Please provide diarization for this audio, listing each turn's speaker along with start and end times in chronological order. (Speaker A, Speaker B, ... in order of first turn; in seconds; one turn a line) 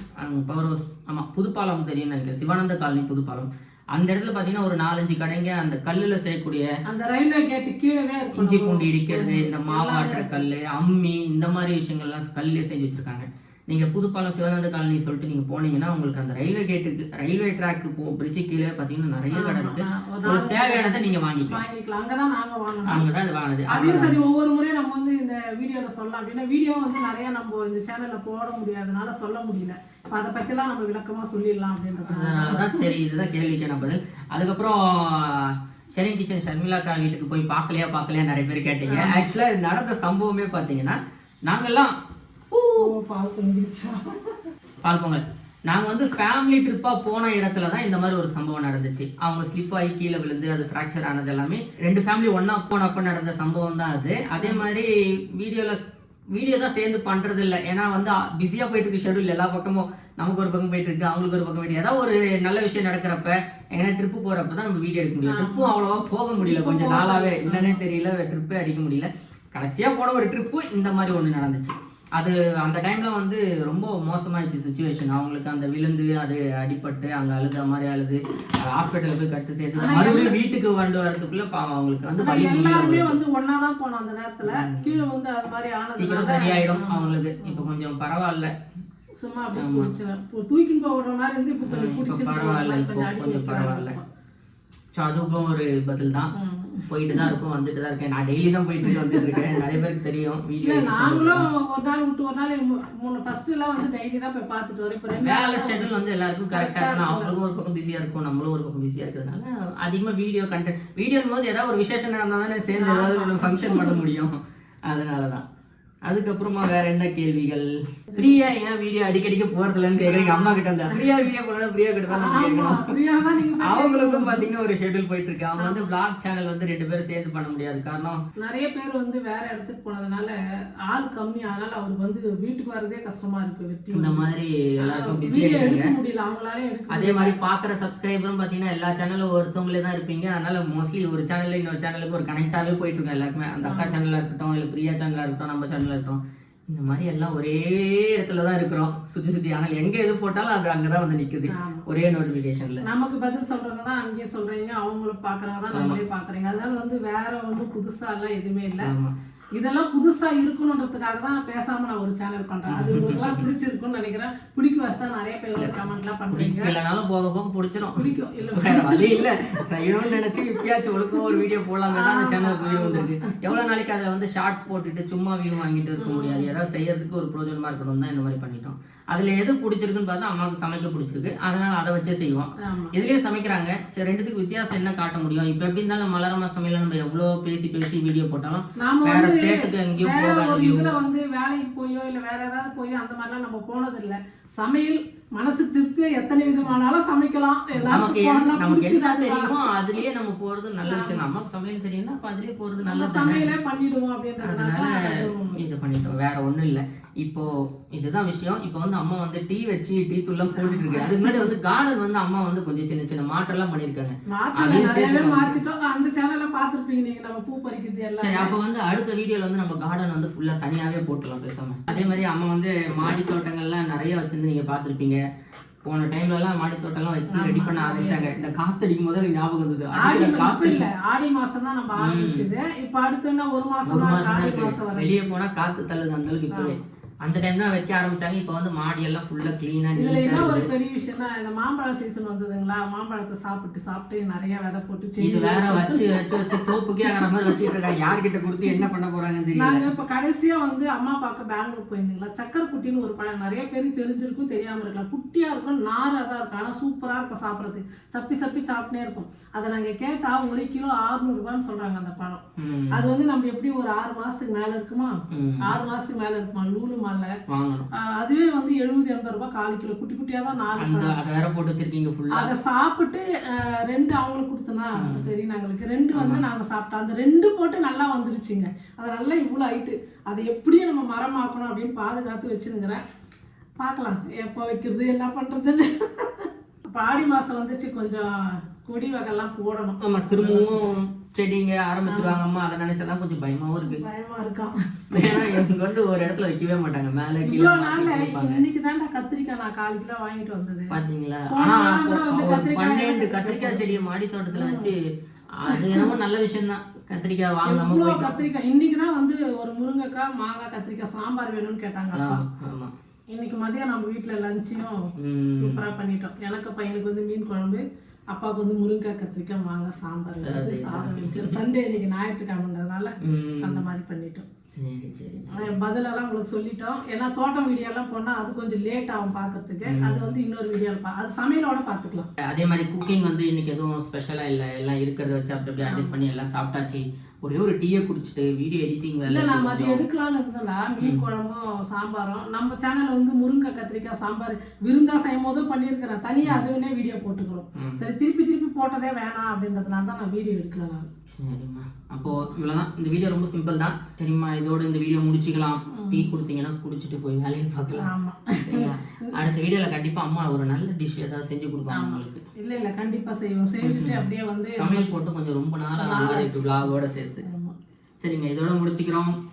Speaker A: 0.2-6.6
Speaker B: 6.9-10.4
Speaker A: 8.3-21.6
Speaker B: 19.3-23.0
Speaker A: 22.9-24.2
Speaker B: 23.7-32.9
Speaker A: 32.0-41.9
Speaker B: 38.8-39.2
Speaker A: 42.5-42.9
Speaker B: 42.8-44.3
Speaker A: 44.8-55.8
Speaker B: 54.4-54.6
Speaker A: 56.3-83.2
Speaker B: 65.2-65.8
Speaker B: 66.4-67.8
Speaker B: 79.8-80.4
Speaker B: 82.2-87.7
Speaker A: 84.5-85.0
Speaker A: 85.9-88.5
Speaker B: 89.2-94.0
Speaker A: 89.5-89.9
Speaker A: 91.6-94.0
Speaker A: 95.0-96.3
Speaker B: 96.3-97.3
Speaker A: 96.9-101.5
Speaker B: 98.8-99.5
Speaker B: 100.6-105.9
Speaker A: 105.2-115.4
Speaker B: 106.5-107.4
Speaker B: 112.7-114.0
Speaker A: 116.0-122.9
Speaker B: 118.1-118.4
Speaker B: 120.0-121.0
Speaker B: 122.1-124.5
Speaker A: 123.6-128.2
Speaker B: 125.6-125.9
Speaker B: 128.4-130.3
Speaker B: 130.9-134.3
Speaker A: 133.9-135.9
Speaker B: 134.8-137.4
Speaker A: 136.9-152.8
Speaker B: 143.6-143.9
Speaker B: 151.5-151.8
Speaker B: 152.8-158.9
Speaker A: 155.7-156.0
Speaker A: 158.8-159.1
Speaker B: 159.6-166.7
Speaker A: 162.7-163.4
Speaker A: 166.3-190.9
Speaker B: 167.9-169.3
Speaker B: 171.3-173.6
Speaker B: 176.0-176.5
Speaker B: 182.7-182.9
Speaker B: 188.8-199.6
Speaker A: 197.7-203.5
Speaker B: 200.8-201.2
Speaker B: 202.8-205.6
Speaker A: 204.4-215.6
Speaker B: 210.5-211.4
Speaker B: 214.3-218.6
Speaker A: 218.2-225.2
Speaker A: 225.8-230.8
Speaker B: 227.3-228.2
Speaker B: 229.9-235.2
Speaker A: 232.0-232.5
Speaker A: 233.8-240.7
Speaker B: 236.5-236.8
Speaker B: 239.9-247.5
Speaker A: 245.2-249.8
Speaker B: 249.5-267.3
Speaker A: 262.6-263.1
Speaker A: 265.3-265.7
Speaker A: 267.5-267.9
Speaker B: 268.0-271.1
Speaker A: 270.8-272.5
Speaker B: 272.3-283.0
Speaker A: 275.0-275.3
Speaker A: 276.1-276.4
Speaker B: 283.8-290.9
Speaker A: 290.0-294.0
Speaker B: 292.1-292.4
Speaker B: 293.8-295.6
Speaker A: 295.1-298.6
Speaker B: 297.4-300.9
Speaker A: 300.9-305.0
Speaker B: 301.5-304.9
Speaker A: 305.5-308.4
Speaker B: 305.7-306.1
Speaker B: 307.6-312.4
Speaker A: 312.1-312.9
Speaker B: 313.3-314.9
Speaker A: 315.2-315.9
Speaker B: 315.5-324.4
Speaker A: 320.4-321.6
Speaker A: 323.2-323.8
Speaker A: 324.7-325.7
Speaker B: 325.5-332.3
Speaker A: 329.8-330.3
Speaker A: 332.4-340.0
Speaker B: 335.8-336.1
Speaker B: 339.2-351.1
Speaker A: 351.3-358.1
Speaker B: 356.0-356.3
Speaker B: 358.0-358.9
Speaker A: 358.6-362.4
Speaker B: 361.9-365.2
Speaker A: 363.8-364.2
Speaker A: 364.8-367.4
Speaker B: 365.9-366.9
Speaker B: 367.4-367.7
Speaker A: 368.2-369.4